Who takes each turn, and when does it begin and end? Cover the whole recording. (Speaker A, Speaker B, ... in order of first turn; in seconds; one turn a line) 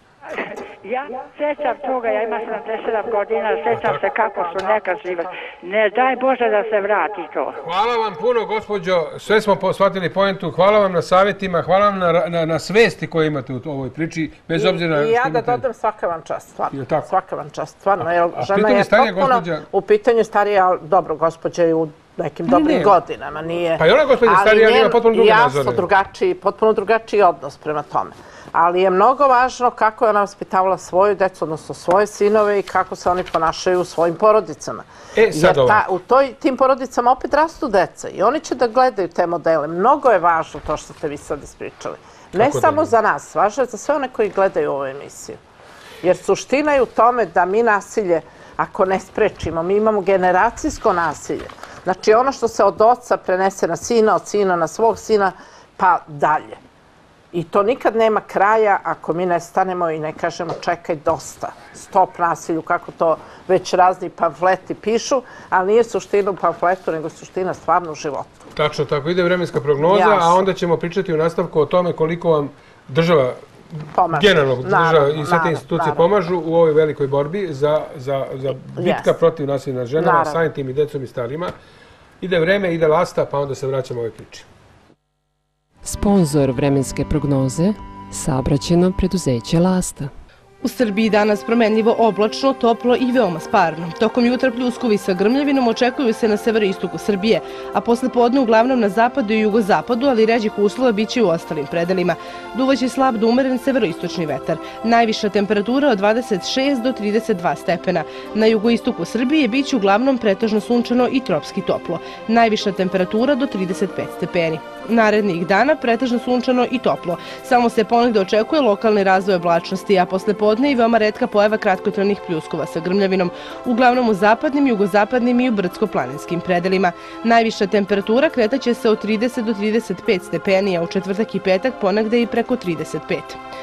Speaker A: 0.3-7.6
Speaker B: 3.7-4.0
Speaker C: 4.4-5.3
Speaker B: 7.6-15.6
Speaker C: 14.5-45.4
Speaker B: 16.7-17.1
Speaker B: 18.0-19.6
Speaker B: 22.5-22.9
Speaker B: 23.8-25.9
Speaker B: 35.1-35.8
Speaker B: 42.4-42.9
Speaker C: 46.0-56.6
Speaker C: 57.3-68.5
Speaker B: 68.5-73.4
Speaker C: 69.9-70.4
Speaker C: 73.9-76.0
Speaker B: 74.1-81.5
Speaker C: 78.7-79.2
Speaker C: 80.0-80.4
Speaker B: 82.2-84.5
Speaker D: 85.8-90.1
Speaker E: 90.6-133.4